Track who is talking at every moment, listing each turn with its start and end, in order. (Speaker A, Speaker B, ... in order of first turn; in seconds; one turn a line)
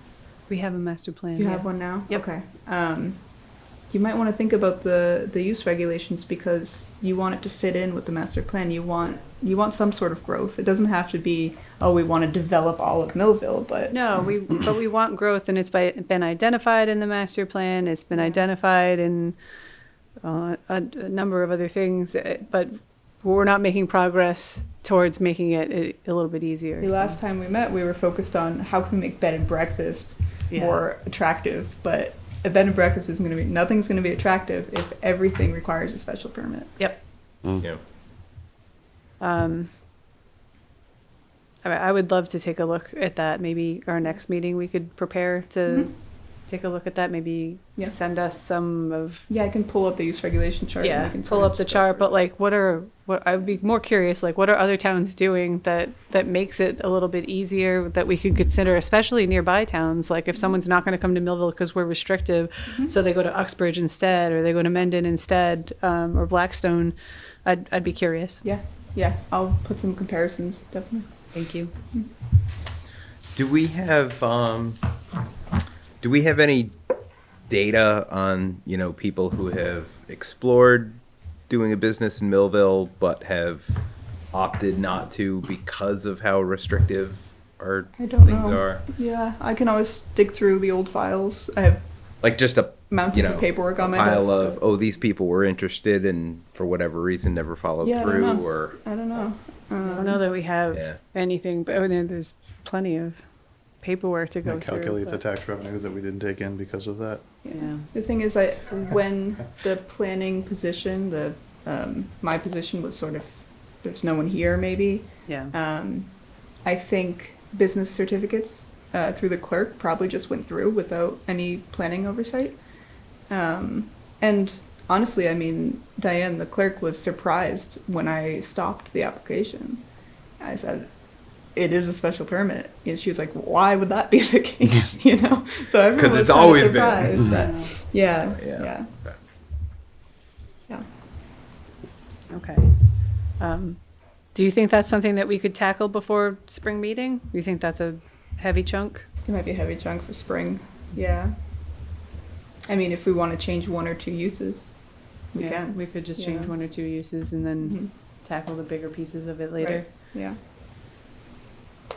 Speaker A: 0.5-2.2
Speaker B: 1.4-14.0
Speaker A: 13.9-19.4
Speaker B: 18.1-18.4
Speaker A: 20.2-27.2
Speaker B: 26.8-36.8
Speaker A: 30.5-30.8
Speaker A: 39.2-39.7
Speaker A: 41.6-49.3
Speaker B: 49.3-52.1
Speaker A: 50.8-68.4
Speaker B: 62.7-62.9
Speaker B: 68.4-72.1
Speaker A: 71.3-71.7
Speaker C: 73.3-74.8
Speaker C: 76.0-76.8
Speaker C: 77.5-83.8
Speaker C: 84.3-88.8
Speaker B: 88.0-91.8
Speaker C: 92.2-98.8
Speaker B: 92.9-94.6
Speaker B: 97.8-100.2
Speaker A: 99.8-105.2
Speaker C: 100.7-101.0
Speaker D: 104.4-107.2
Speaker B: 107.4-122.7
Speaker A: 107.5-107.9
Speaker A: 115.2-115.5
Speaker B: 123.2-129.8
Speaker B: 130.4-138.9
Speaker C: 135.9-139.2
Speaker A: 137.2-137.7
Speaker A: 142.3-149.1
Speaker B: 149.2-152.0
Speaker B: 152.7-156.6
Speaker A: 155.3-159.9
Speaker B: 157.6-157.9
Speaker B: 159.6-160.4